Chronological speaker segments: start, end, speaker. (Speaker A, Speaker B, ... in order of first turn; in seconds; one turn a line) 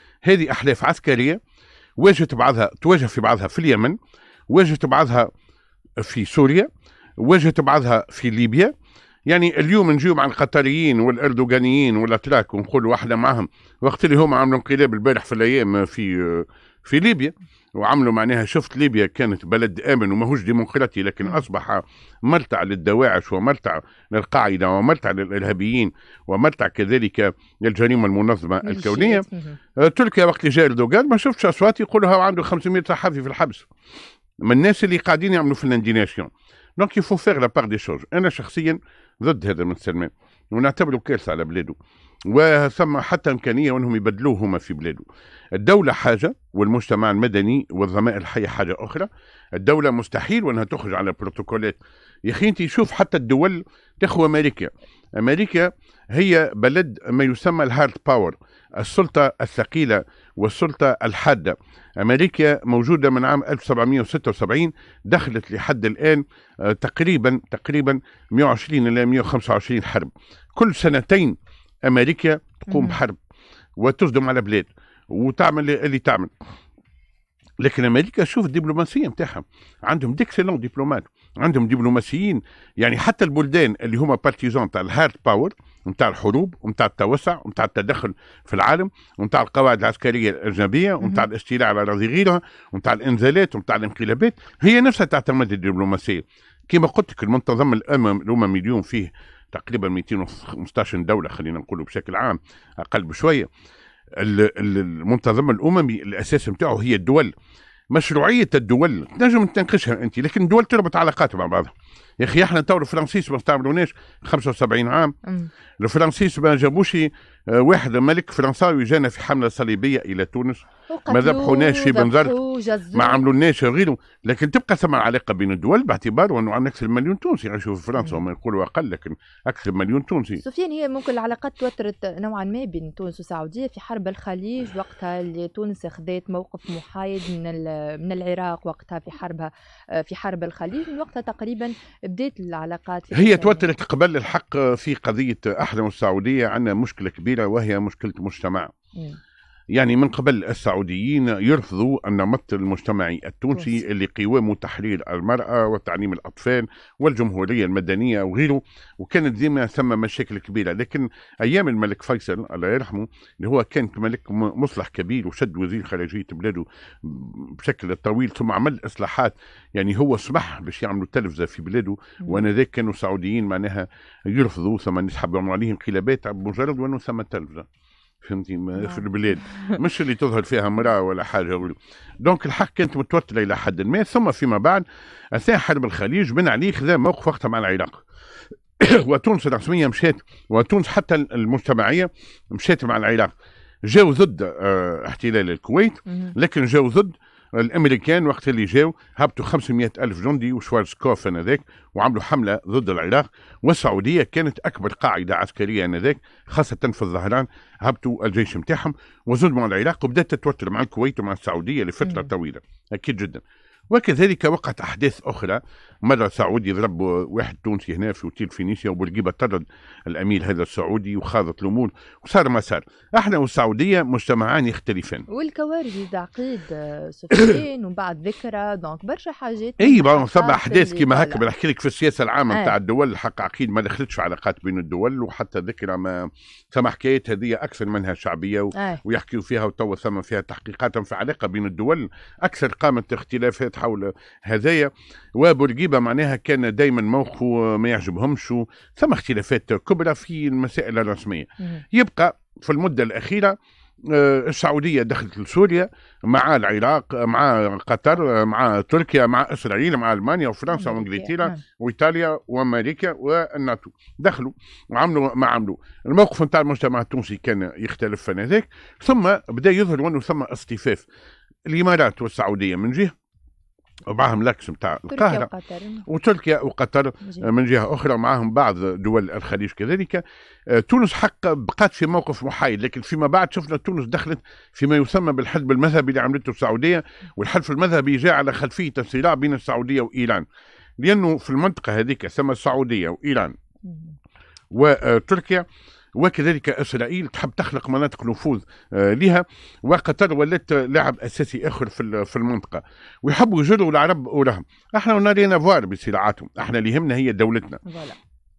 Speaker A: 0.2-1.4
Speaker A: 2.0-4.0
Speaker A: 4.5-5.3
Speaker A: 6.0-8.7
Speaker A: 9.3-29.2
Speaker B: 28.6-29.6
Speaker A: 29.8-33.7
Speaker A: 34.4-73.2
Speaker B: 72.7-73.0
Speaker A: 73.8-76.3
Speaker A: 77.6-103.5
Speaker A: 104.2-107.3
Speaker A: 107.9-115.1
Speaker B: 115.2-115.5
Speaker A: 115.8-122.3
Speaker B: 120.9-123.2
Speaker A: 122.9-130.4
Speaker B: 130.4-143.7
Speaker A: 143.1-148.7
Speaker A: 149.7-177.7
Speaker B: 153.5-153.8
Speaker A: 178.2-188.0
Speaker A: 188.8-193.3
Speaker A: 193.8-225.2
Speaker B: 212.0-212.3
Speaker B: 225.3-231.4
Speaker A: 229.8-271.0
Speaker B: 232.5-232.7
Speaker B: 238.7-239.0
Speaker B: 260.7-261.6
Speaker A: 271.7-273.1
Speaker A: 274.1-275.5
Speaker B: 275.1-276.1
Speaker A: 276.1-290.4
Speaker A: 291.0-293.5
Speaker B: 293.9-294.1
Speaker A: 294.7-295.6
Speaker A: 296.1-307.8
Speaker B: 307.9-308.2